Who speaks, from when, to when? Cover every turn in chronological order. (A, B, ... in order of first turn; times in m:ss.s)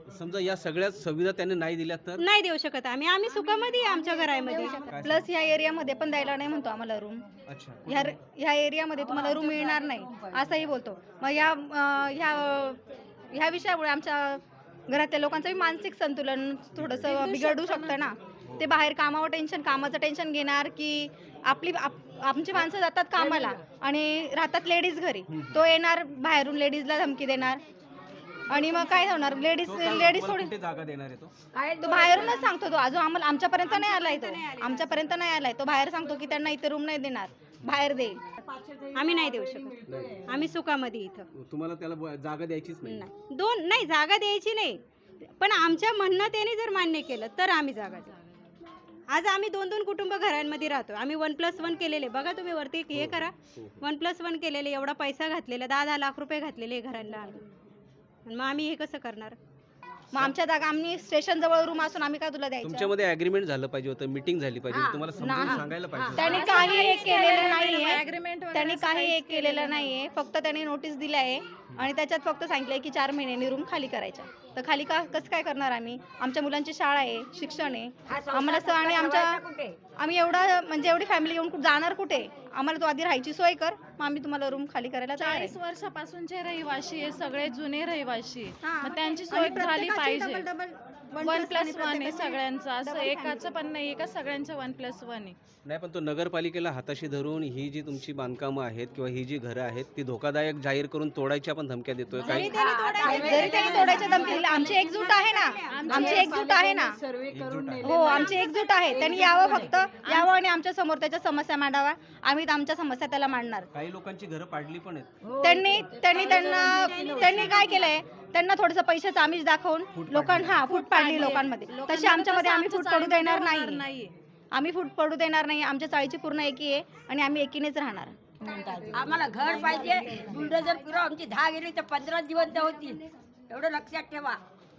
0:00.1-0:02.2 A
0:02.2-0:04.9 B
0:04.8-0:05.3 A
0:05.0-0:07.2 C
0:07.5-0:08.1 A
0:07.9-0:12.8 C
0:13.3-0:27.6 C
0:16.8-0:17.1 A
0:17.0-0:18.1 D
0:18.4-0:18.8 A
0:25.3-0:25.7 A
0:28.5-0:30.5 C
0:29.6-0:31.3 A
0:31.5-0:32.5 E
0:31.8-0:38.2 C
0:33.6-0:35.0 B
0:38.4-0:40.4 F
0:39.0-0:39.8 B
0:39.9-0:40.2 A
0:40.3-0:41.2 B
0:41.3-0:43.1 A
0:42.8-0:44.8 B
0:45.4-0:48.1 B
0:49.1-0:53.3 B
0:52.9-0:53.8 A
0:53.8-0:57.4 B
0:58.3-0:59.4 B
1:00.1-1:02.9 C
1:02.6-1:06.4 A
1:04.7-1:06.2 E
1:05.2-1:19.4 C
1:06.2-1:10.0 D
1:18.1-1:19.8 E
1:20.0-1:25.6 C
1:25.2-1:30.5 D
1:28.6-1:33.5 C
1:31.2-1:35.4 D
1:35.6-1:42.6 A
1:42.2-1:46.0 B
1:42.3-1:44.5 E
1:43.1-1:47.0 C
1:45.7-1:46.2 D
1:45.9-1:50.0 F
1:47.3-1:48.2 A
1:47.8-1:53.7 C
1:49.8-1:50.3 D
1:53.7-1:55.1 A
1:55.3-1:57.3 F
1:55.4-2:03.8 C
1:56.1-1:56.4 B
1:57.2-1:57.9 B
1:59.9-2:00.6 A
2:00.5-2:04.1 D
2:04.5-2:08.2 C
2:08.4-2:10.5 F
2:08.9-2:14.4 E